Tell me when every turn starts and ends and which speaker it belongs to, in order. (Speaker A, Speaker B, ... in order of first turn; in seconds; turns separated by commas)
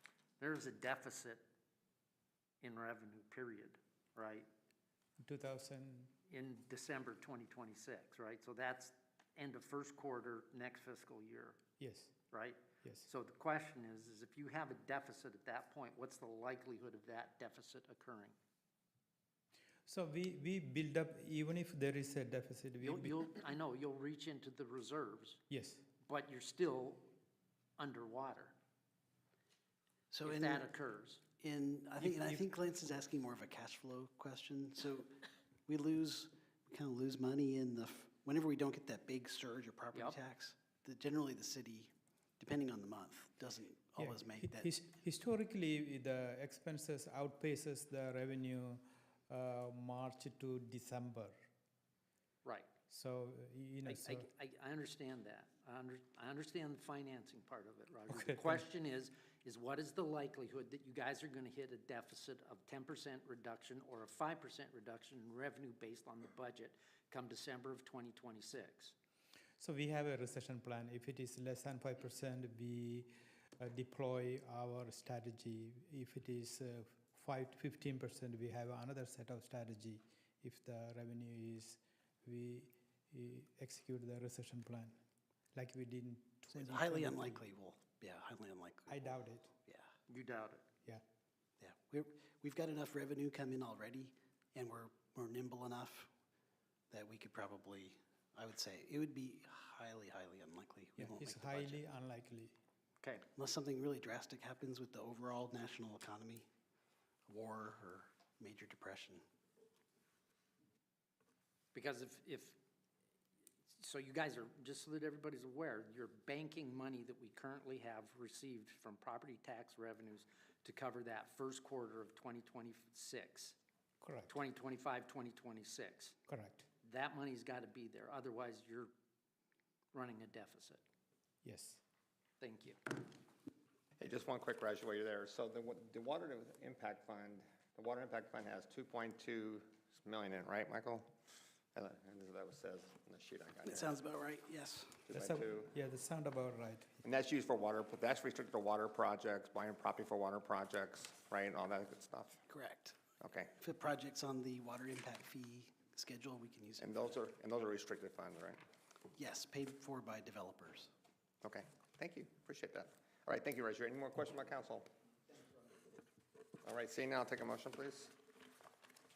Speaker A: 0.4-1.4, Speaker A: 2.6-4.5, Speaker B: 5.2-6.1, Speaker A: 6.3-11.6, Speaker B: 11.8-12.1, Speaker A: 12.3-18.3, Speaker B: 19.9-23.2, Speaker A: 22.8-25.4, Speaker B: 25.5-25.8, Speaker A: 26.1-27.1, Speaker A: 27.8-28.5, Speaker C: 30.1-30.6, Speaker A: 30.2-31.2, Speaker C: 31.4-44.7, Speaker B: 32.0-32.4, Speaker B: 44.0-51.3, Speaker B: 52.9-54.3, Speaker A: 53.9-68.9, Speaker B: 58.1-58.6, Speaker B: 69.6-84.9, Speaker B: 85.5-87.4, Speaker C: 86.5-89.9, Speaker B: 88.9-89.5, Speaker A: 90.1-90.6, Speaker C: 91.6-96.1, Speaker C: 96.9-101.8, Speaker B: 101.0-102.5, Speaker C: 103.3-106.5, Speaker C: 107.3-109.2, Speaker A: 111.7-112.6, Speaker A: 113.7-123.5, Speaker B: 124.0-124.3, Speaker A: 124.3-126.2, Speaker B: 126.3-126.7, Speaker A: 126.8-128.9, Speaker A: 129.9-130.8, Speaker B: 131.4-131.8, Speaker A: 132.4-133.0, Speaker D: 134.0-141.1, Speaker D: 141.7-143.9, Speaker C: 143.6-145.1, Speaker D: 145.1-145.7, Speaker B: 145.1-147.0, Speaker D: 147.0-152.4, Speaker C: 152.5-153.0, Speaker D: 153.2-153.5, Speaker C: 153.5-157.1, Speaker D: 156.8-158.6, Speaker C: 159.2-160.9, Speaker D: 161.4-164.9, Speaker D: 166.6-168.1